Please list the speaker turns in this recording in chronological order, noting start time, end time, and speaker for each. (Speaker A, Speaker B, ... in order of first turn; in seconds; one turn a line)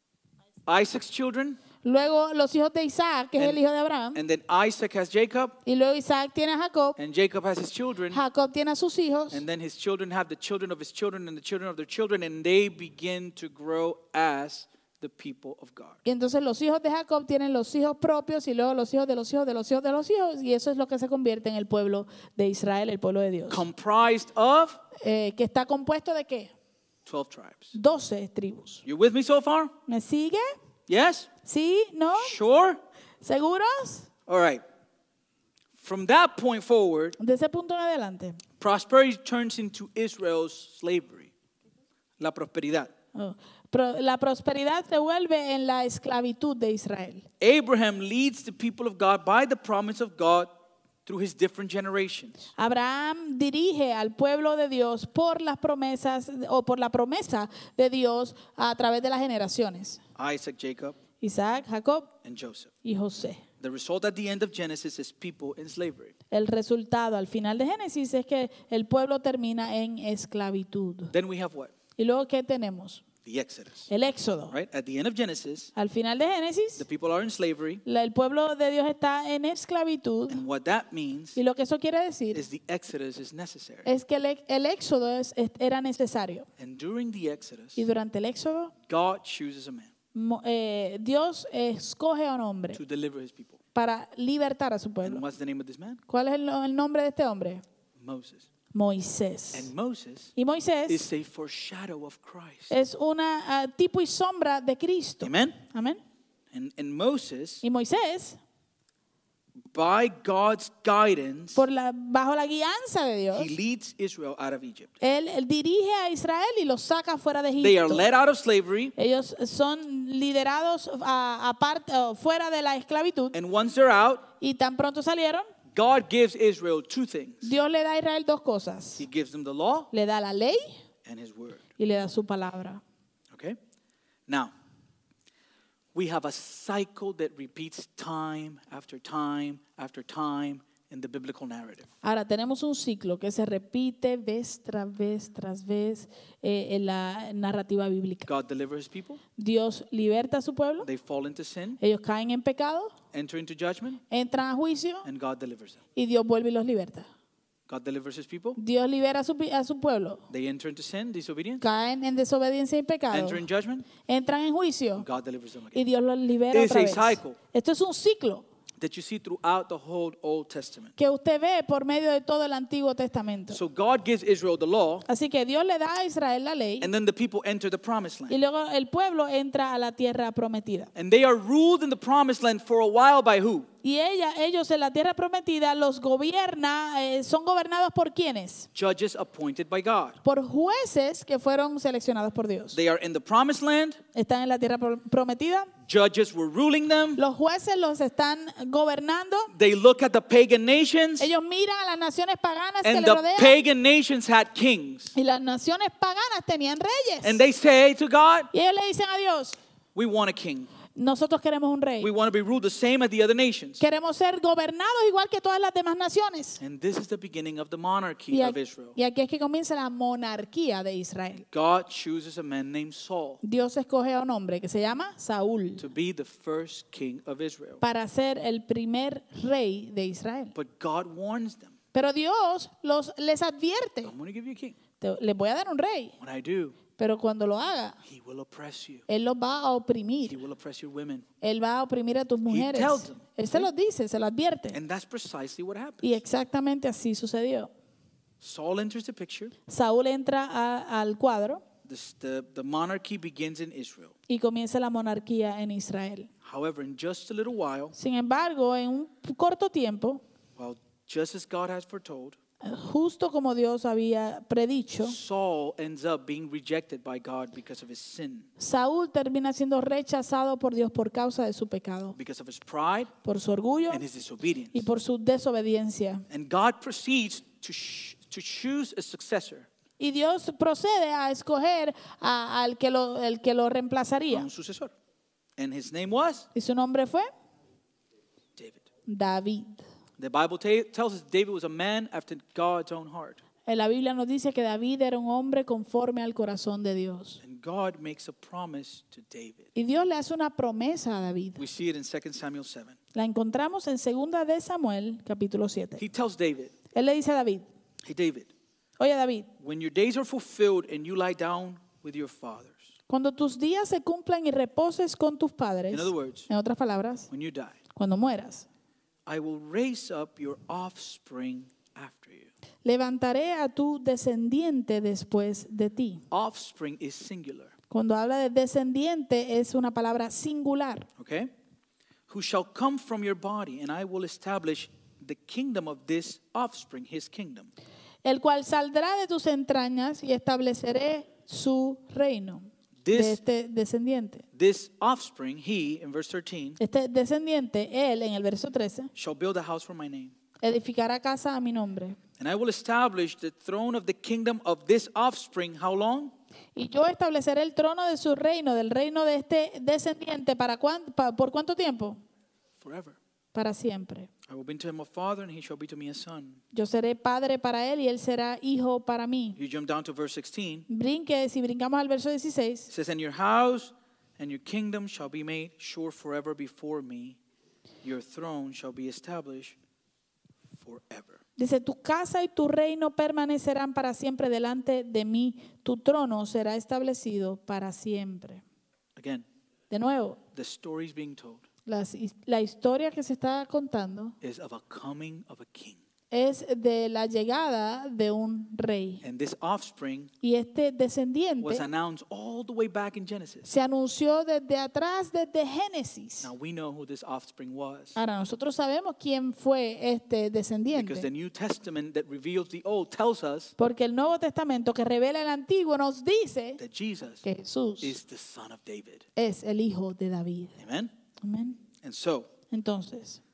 Speaker A: 0.7-1.6
Speaker B: 1.8-4.2
Speaker A: 4.1-5.5
Speaker B: 5.6-7.0
Speaker A: 7.0-8.2
Speaker B: 8.1-9.4
Speaker A: 9.3-16.0
Speaker B: 16.0-23.6
Speaker A: 23.5-24.8
Speaker B: 25.0-26.5
Speaker A: 27.1-27.7
Speaker B: 27.7-28.8
Speaker A: 28.8-29.7
Speaker B: 29.9-30.5
Speaker A: 30.9-31.3
Speaker B: 31.4-32.4
Speaker A: 32.1-32.8
Speaker B: 33.2-34.1
Speaker A: 34.3-34.6
Speaker A: 35.8-37.2
Speaker B: 37.2-38.4
Speaker A: 38.6-41.3
Speaker A: 42.2-42.9
Speaker B: 43.1-47.3
Speaker A: 47.4-50.5
Speaker A: 51.0-52.5
Speaker B: 52.5-60.0
Speaker A: 60.1-61.0
Speaker B: 61.2-62.1
Speaker A: 62.2-62.7
Speaker B: 62.8-63.4
Speaker A: 63.6-66.1
Speaker B: 66.3-71.1
Speaker A: 71.1-71.7
Speaker B: 72.0-73.0
Speaker A: 73.2-73.9
Speaker B: 73.9-74.5
Speaker A: 74.5-75.7
Speaker B: 75.7-76.8
Speaker A: 76.8-77.8
Speaker B: 77.8-80.4
Speaker A: 80.3-81.4
Speaker B: 81.3-82.4
Speaker A: 82.3-83.9
Speaker B: 83.8-86.5
Speaker A: 86.6-87.8
Speaker B: 87.8-88.7
Speaker A: 88.8-89.9
Speaker B: 90.1-92.8
Speaker A: 92.7-93.6
Speaker B: 93.7-95.2
Speaker A: 95.0-96.0
Speaker B: 96.1-97.6
Speaker A: 98.0-98.5
Speaker B: 98.7-99.7
Speaker A: 99.5-100.3
Speaker B: 100.3-101.1
Speaker A: 100.9-102.7
Speaker B: 102.7-106.0
Speaker A: 105.2-105.6
Speaker A: 106.5-107.6
Speaker B: 107.6-108.4
Speaker A: 109.7-111.6
Speaker B: 111.5-113.5
Speaker A: 113.3-114.9
Speaker B: 115.0-118.0
Speaker A: 117.6-118.9
Speaker B: 119.0-123.3
Speaker A: 123.3-124.3
Speaker B: 124.4-125.5
Speaker A: 125.7-127.5
Speaker B: 127.4-129.1
Speaker A: 129.0-129.9
Speaker B: 129.9-130.8
Speaker A: 131.0-131.6
Speaker B: 131.8-132.8
Speaker A: 133.3-133.6
Speaker A: 134.3-134.5
Speaker A: 135.9-141.9
Speaker B: 142.0-148.3
Speaker A: 148.2-149.2
Speaker B: 149.3-150.9
Speaker A: 150.8-151.8
Speaker B: 151.8-152.9
Speaker A: 153.1-154.0
Speaker B: 154.1-155.1
Speaker A: 155.0-155.8
Speaker B: 155.9-157.1
Speaker A: 157.7-158.6
Speaker B: 158.6-160.2
Speaker A: 160.3-161.6
Speaker B: 161.6-163.4
Speaker A: 163.1-163.9
Speaker B: 164.0-165.1
Speaker A: 165.0-165.8
Speaker B: 165.7-168.4
Speaker A: 166.5-167.4
Speaker A: 168.8-170.9
Speaker B: 170.9-173.6
Speaker A: 173.5-175.1
Speaker B: 175.1-176.9
Speaker A: 176.8-178.3
Speaker B: 178.3-180.9
Speaker A: 180.9-183.7
Speaker B: 183.8-188.7
Speaker A: 188.7-190.2
Speaker B: 190.2-192.8
Speaker A: 192.7-194.0
Speaker B: 194.1-195.7
Speaker A: 195.8-197.2
Speaker B: 197.2-199.5
Speaker A: 199.5-201.3
Speaker B: 201.2-203.6
Speaker A: 202.8-205.1
Speaker B: 205.1-207.4
Speaker A: 207.2-208.5
Speaker B: 208.5-209.6
Speaker A: 209.9-210.7
Speaker B: 210.9-212.1
Speaker A: 212.0-213.8
Speaker B: 213.8-216.6
Speaker A: 216.6-218.9
Speaker B: 218.3-221.4
Speaker A: 221.5-223.4
Speaker B: 223.4-225.8
Speaker A: 225.8-227.8
Speaker B: 227.8-230.5
Speaker A: 230.5-231.7
Speaker B: 231.9-234.1
Speaker A: 234.0-234.8
Speaker B: 235.0-236.1
Speaker A: 236.2-236.8
Speaker B: 237.0-238.0
Speaker A: 238.0-239.0
Speaker B: 239.1-240.4
Speaker A: 240.3-241.2
Speaker B: 241.4-244.8
Speaker A: 242.5-243.7
Speaker A: 244.7-246.2
Speaker B: 246.0-247.7
Speaker A: 248.4-249.5
Speaker B: 249.7-251.6
Speaker A: 251.8-254.1
Speaker B: 254.3-256.3
Speaker A: 256.4-257.9
Speaker B: 257.9-260.2
Speaker A: 260.6-262.4
Speaker B: 262.6-265.2
Speaker A: 265.0-268.5
Speaker B: 268.6-272.1
Speaker A: 272.1-273.1
Speaker B: 273.2-274.0
Speaker A: 273.9-274.9
Speaker B: 274.7-276.2
Speaker A: 276.3-279.7
Speaker B: 280.0-284.5
Speaker A: 284.3-284.9
Speaker A: 285.6-286.5
Speaker B: 286.5-287.3
Speaker A: 288.6-288.8
Speaker B: 289.1-289.8
Speaker A: 290.2-293.4
Speaker B: 293.6-297.4
Speaker A: 297.4-299.7
Speaker B: 299.7-301.6
Speaker A: 301.6-302.9
Speaker B: 303.1-306.0
Speaker A: 306.0-306.7
Speaker B: 306.9-307.7
Speaker A: 308.0-308.5
Speaker B: 309.0-309.5
Speaker A: 309.6-312.9
Speaker B: 313.1-317.3
Speaker A: 315.9-316.5
Speaker A: 317.3-317.8
Speaker B: 317.9-318.7
Speaker A: 319.2-322.5
Speaker B: 322.8-326.2
Speaker A: 326.3-327.7
Speaker B: 327.9-331.1
Speaker A: 331.2-331.5
Speaker A: 332.3-337.7
Speaker B: 338.2-344.4
Speaker A: 343.0-343.4
Speaker A: 344.5-346.8
Speaker B: 346.8-349.1
Speaker A: 349.1-350.3
Speaker B: 350.6-352.2
Speaker A: 352.4-356.3
Speaker B: 356.8-362.2
Speaker A: 362.8-363.2
Speaker B: 363.5-364.3
Speaker A: 364.5-366.6
Speaker B: 366.7-369.6
Speaker A: 369.6-370.9
Speaker B: 370.9-372.9
Speaker A: 372.9-377.4
Speaker A: 378.0-379.8
Speaker A: 380.8-381.4
Speaker B: 381.6-388.6
Speaker A: 389.1-389.4
Speaker B: 389.9-390.4
Speaker A: 390.5-391.6
Speaker B: 391.9-394.4
Speaker A: 394.4-396.0
Speaker B: 396.3-399.2
Speaker A: 399.2-400.3
Speaker B: 400.4-401.9
Speaker A: 401.6-403.6
Speaker B: 403.6-406.5
Speaker A: 406.4-408.1
Speaker B: 408.1-411.3
Speaker A: 410.9-413.7
Speaker B: 413.8-416.8
Speaker A: 416.8-417.4
Speaker B: 417.4-418.2
Speaker A: 418.0-419.2
Speaker B: 419.4-420.8
Speaker A: 420.8-421.1
Speaker B: 421.4-421.8
Speaker A: 422.0-422.5
Speaker B: 422.7-423.4